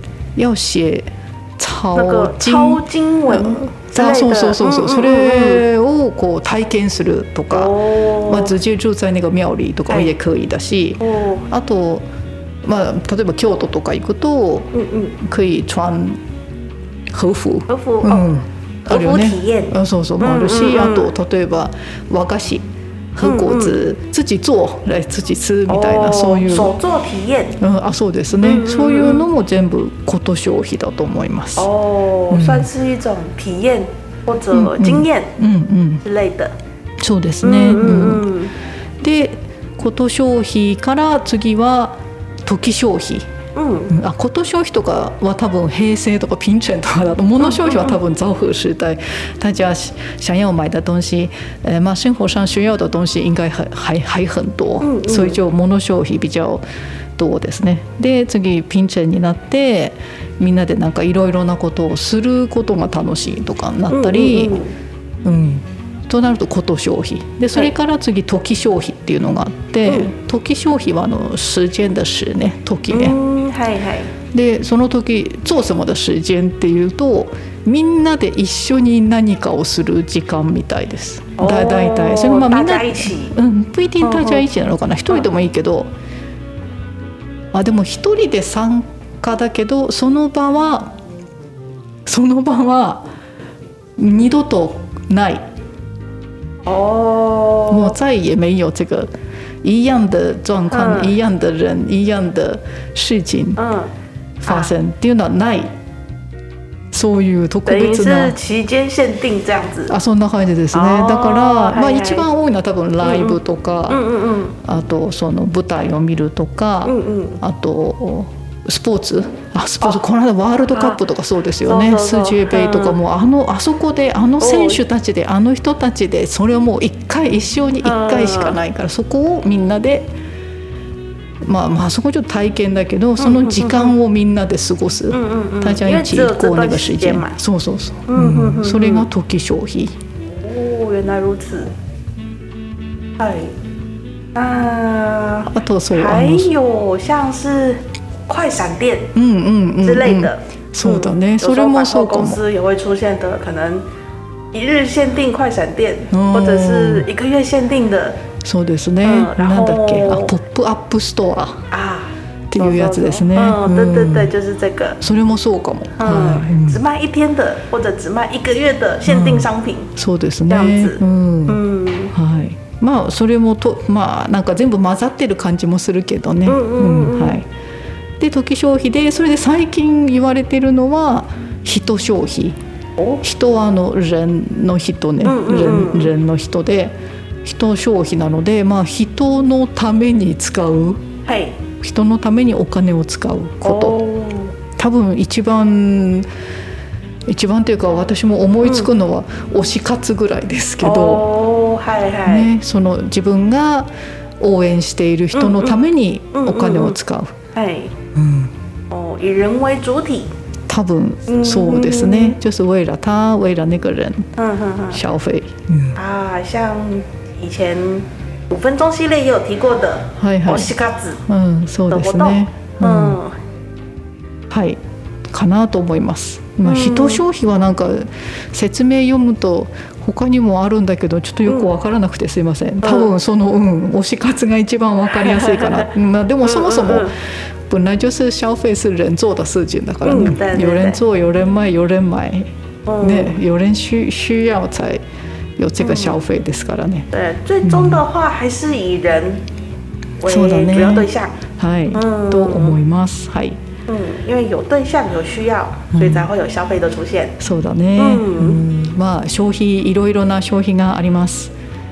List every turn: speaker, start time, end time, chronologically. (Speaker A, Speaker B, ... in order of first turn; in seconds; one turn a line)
Speaker A: 0.3-12.1
Speaker B: 1.9-5.6
Speaker B: 7.5-8.5
Speaker B: 9.9-10.1
Speaker B: 11.0-11.4
Speaker A: 12.6-16.2
Speaker B: 14.7-15.2
Speaker A: 17.1-26.7
Speaker B: 17.7-18.2
Speaker B: 18.9-21.1
Speaker B: 23.2-23.8
Speaker B: 25.7-27.6
Speaker A: 27.6-31.7
Speaker B: 28.4-29.3
Speaker B: 31.6-35.3
Speaker A: 32.3-32.7
Speaker A: 34.5-36.0
Speaker B: 36.0-36.5
Speaker A: 37.0-38.2
Speaker B: 37.4-38.5
Speaker A: 39.0-43.3
Speaker B: 43.5-43.9
Speaker A: 43.9-56.6
Speaker B: 47.4-48.0
Speaker B: 54.8-55.4
Speaker A: 57.2-64.6
Speaker B: 63.9-64.7
Speaker A: 65.2-73.2
Speaker B: 69.8-70.1
Speaker B: 72.9-74.1
Speaker A: 74.3-85.9
Speaker B: 81.4-83.3
Speaker B: 84.0-84.5
Speaker A: 87.5-91.0
Speaker A: 92.0-93.1
Speaker A: 94.0-95.5
Speaker B: 96.6-98.0
Speaker A: 97.7-99.1
Speaker A: 99.6-103.6
Speaker B: 100.7-101.2
Speaker B: 103.6-103.9
Speaker A: 104.4-105.7
Speaker B: 104.5-104.7
Speaker A: 106.9-108.4
Speaker B: 107.7-109.9
Speaker A: 109.9-114.1
Speaker B: 110.7-112.3
Speaker B: 113.0-114.5
Speaker A: 114.6-130.1
Speaker B: 116.8-117.4
Speaker B: 120.7-121.0
Speaker B: 121.6-123.0
Speaker B: 124.4-124.8
Speaker B: 127.8-128.6
Speaker A: 131.4-139.9
Speaker B: 133.2-133.9
Speaker B: 135.1-137.4
Speaker B: 138.1-139.1
Speaker B: 140.4-141.7
Speaker B: 143.2-143.5
Speaker B: 144.3-149.1
Speaker A: 145.5-146.5
Speaker A: 149.1-152.4
Speaker B: 149.8-153.8
Speaker B: 154.5-158.2
Speaker A: 156.1-157.1
Speaker A: 158.4-161.7
Speaker B: 159.0-160.3
Speaker B: 161.7-165.0
Speaker A: 162.5-164.3
Speaker A: 165.0-166.8
Speaker B: 166.0-169.9
Speaker A: 169.1-171.6
Speaker B: 170.5-172.1
Speaker A: 172.1-177.5
Speaker B: 176.4-177.4
Speaker A: 178.2-182.6
Speaker B: 183.0-183.2
Speaker A: 183.2-191.0
Speaker B: 185.2-186.1
Speaker B: 191.2-191.6
Speaker A: 191.8-194.0
Speaker B: 193.6-194.5
Speaker A: 194.8-196.3
Speaker A: 197.3-201.3
Speaker B: 198.6-198.9
Speaker B: 200.8-202.5
Speaker A: 202.2-203.9
Speaker A: 204.4-207.3
Speaker B: 205.3-205.8
Speaker B: 206.3-207.0
Speaker B: 207.5-207.9
Speaker A: 208.1-208.5
Speaker B: 208.9-210.3
Speaker A: 210.7-214.3
Speaker B: 211.3-212.4
Speaker B: 214.4-215.0
Speaker A: 214.9-216.0
Speaker B: 215.9-221.2
Speaker A: 220.1-220.7
Speaker A: 221.2-223.2
Speaker B: 221.9-223.3
Speaker A: 224.5-224.8
Speaker A: 225.3-237.1
Speaker B: 226.6-227.2
Speaker B: 232.8-233.1
Speaker B: 235.1-235.9
Speaker B: 236.4-237.2
Speaker A: 237.7-242.5
Speaker B: 240.0-241.0
Speaker B: 242.9-243.4
Speaker A: 243.0-245.0
Speaker A: 245.6-247.1
Speaker B: 245.8-246.2
Speaker B: 247.1-249.4
Speaker A: 247.6-248.0
Speaker B: 250.2-251.3
Speaker A: 250.2-253.6
Speaker B: 251.9-252.8
Speaker B: 253.9-257.4
Speaker A: 255.9-256.3
Speaker A: 257.4-261.5
Speaker B: 258.0-258.6